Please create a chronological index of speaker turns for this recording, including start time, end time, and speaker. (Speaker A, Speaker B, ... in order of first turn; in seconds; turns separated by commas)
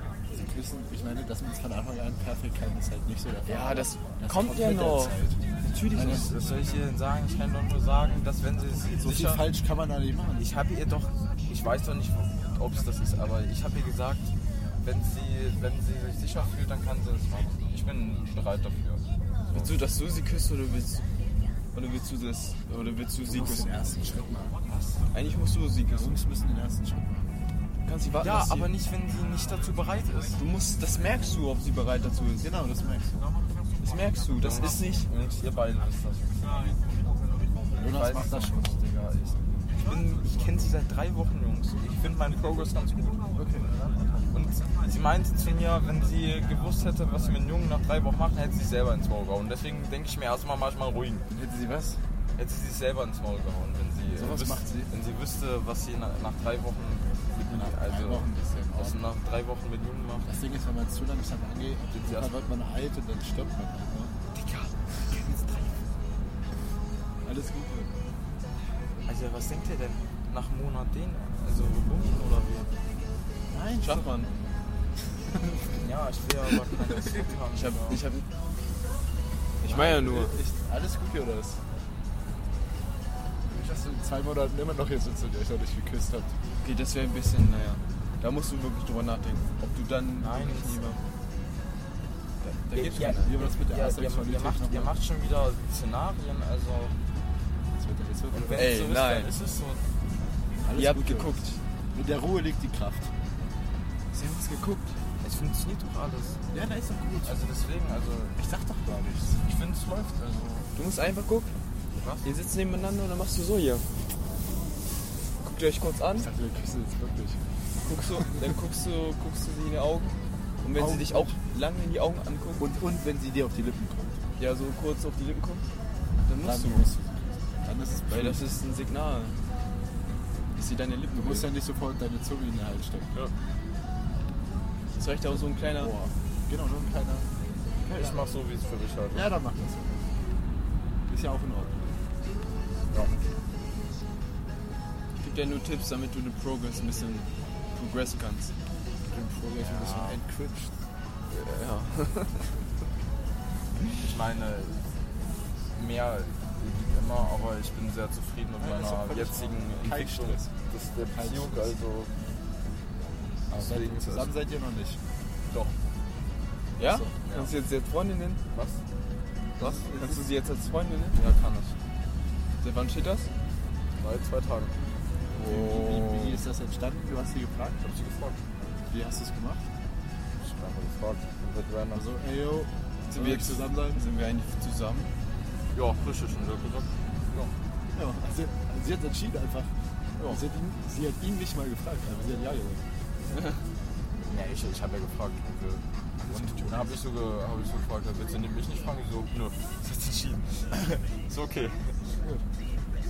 Speaker A: 0.3-5.4, Speaker B: 3.5-6.3, Speaker C: 5.9-9.4, Speaker A: 6.0-6.3, Speaker A: 9.0-10.4, Speaker C: 10.3-19.7, Speaker B: 19.5-21.0, Speaker B: 21.7-23.7, Speaker A: 23.2-24.6, Speaker C: 24.6-25.1, Speaker B: 25.1-26.2, Speaker A: 25.9-27.4, Speaker B: 27.8-28.7, Speaker C: 28.2-30.4, Speaker B: 30.4-32.5, Speaker A: 32.4-33.2, Speaker B: 33.8-35.1, Speaker C: 34.4-36.7, Speaker A: 37.8-38.8, Speaker C: 37.8-43.3, Speaker A: 43.3-44.2, Speaker C: 44.3-51.3, Speaker A: 51.3-52.0, Speaker C: 52.4-60.3, Speaker A: 54.1-54.9, Speaker A: 57.5-59.0, Speaker A: 60.2-64.1, Speaker C: 62.0-62.4, Speaker B: 64.4-64.7, Speaker B: 67.2-67.9, Speaker C: 69.0-72.7, Speaker A: 73.5-74.1, Speaker B: 73.8-74.3, Speaker A: 75.2-75.8, Speaker C: 75.8-78.0, Speaker B: 77.5-78.2, Speaker B: 79.6-80.3, Speaker A: 79.6-81.6, Speaker A: 83.4-86.3, Speaker B: 86.6-91.0, Speaker C: 90.2-90.9, Speaker B: 92.4-93.3, Speaker C: 92.7-97.0, Speaker A: 93.2-95.0, Speaker A: 97.7-98.7, Speaker C: 98.3-99.8, Speaker B: 98.5-99.3, Speaker A: 100.6-103.1, Speaker B: 100.7-101.6, Speaker B: 104.1-105.0, Speaker C: 105.2-106.4, Speaker A: 106.5-107.4, Speaker C: 107.2-108.5, Speaker A: 108.4-109.4, Speaker C: 109.3-110.7, Speaker B: 110.7-111.5, Speaker C: 111.9-112.3, Speaker B: 112.2-113.8, Speaker B: 115.4-116.3, Speaker A: 116.1-117.4, Speaker B: 117.8-122.6, Speaker A: 120.7-121.4, Speaker A: 122.6-124.2, Speaker B: 124.4-125.7, Speaker B: 126.2-126.9, Speaker A: 126.4-128.4, Speaker B: 128.1-129.3, Speaker B: 130.6-131.5, Speaker A: 131.1-133.1, Speaker B: 134.9-135.9, Speaker A: 135.3-137.3, Speaker C: 137.8-139.3, Speaker A: 137.9-138.2, Speaker A: 139.1-140.0, Speaker A: 141.1-142.0, Speaker B: 145.2-148.5, Speaker A: 149.1-150.8, Speaker C: 149.5-150.2, Speaker B: 151.3-152.5, Speaker C: 154.0-155.0, Speaker C: 155.7-162.1, Speaker A: 158.6-160.5, Speaker A: 161.1-161.8, Speaker C: 163.5-164.3, Speaker A: 163.5-165.0, Speaker C: 165.5-165.8, Speaker B: 166.8-168.4, Speaker A: 166.8-167.1, Speaker C: 167.2-167.5, Speaker C: 168.5-168.8, Speaker A: 169.6-170.2, Speaker B: 169.6-171.2, Speaker C: 171.1-171.8, Speaker B: 172.6-173.3, Speaker C: 174.0-174.7, Speaker A: 175.3-177.9, Speaker B: 175.4-176.4, Speaker C: 177.8-178.4, Speaker A: 178.9-179.7, Speaker C: 180.4-182.0, Speaker A: 181.9-184.0, Speaker B: 183.1-185.1, Speaker C: 185.7-187.5, Speaker A: 187.9-192.8, Speaker C: 194.2-202.0, Speaker A: 196.2-197.0, Speaker A: 202.2-202.4